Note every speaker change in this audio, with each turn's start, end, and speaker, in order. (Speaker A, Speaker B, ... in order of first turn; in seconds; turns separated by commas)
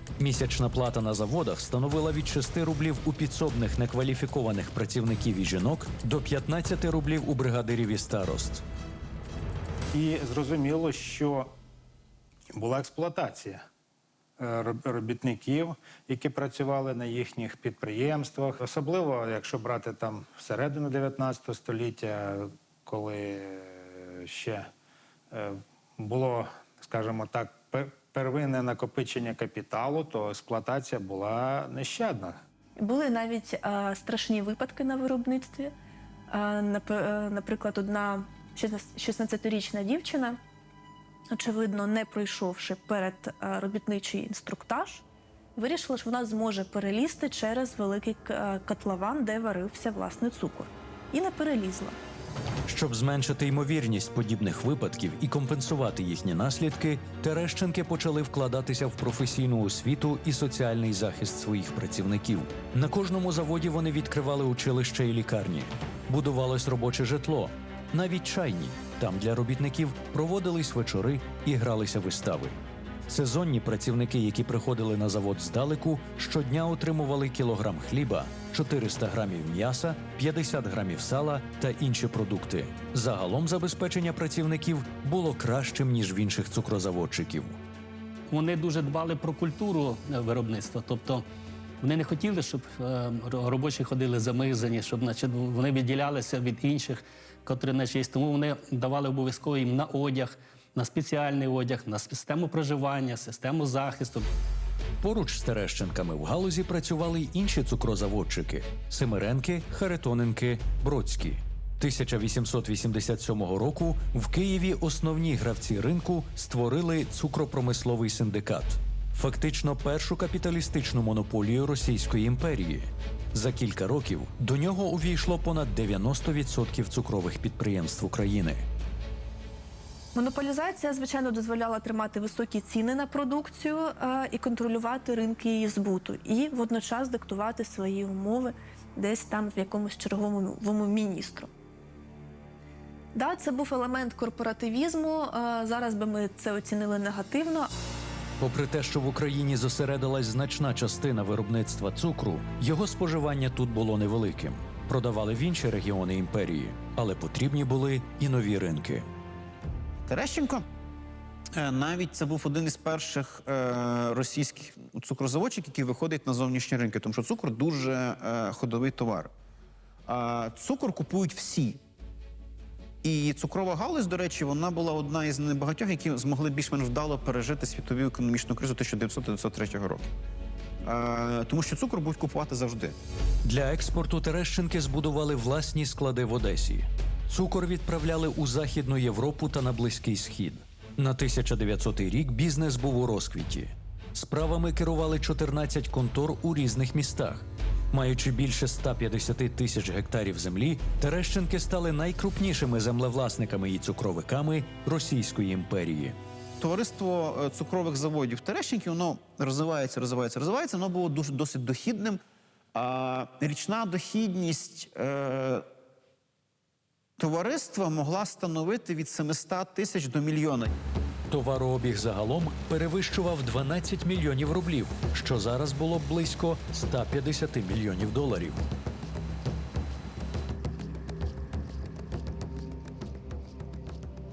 Speaker A: 0.2-8.6, Speaker B: 9.9-11.5, Speaker B: 12.5-13.6, Speaker B: 14.4-24.7, Speaker B: 25.3-32.4, Speaker C: 32.8-35.7, Speaker C: 36.3-40.4, Speaker C: 41.3-45.0, Speaker C: 45.6-52.0, Speaker A: 52.7-87.6, Speaker D: 88.3-91.2, Speaker D: 91.8-104.3, Speaker A: 105.0-128.7, Speaker C: 130.2-141.5, Speaker C: 143.2-147.7, Speaker A: 148.4-159.1, Speaker E: 160.1-160.6, Speaker E: 161.5-169.3, Speaker E: 170.1-171.8, Speaker E: 173.0-180.1, Speaker E: 180.8-182.9, Speaker A: 183.4-206.2, Speaker E: 206.6-212.2, Speaker E: 212.7-215.7, Speaker E: 217.2-220.7, Speaker A: 221.3-228.6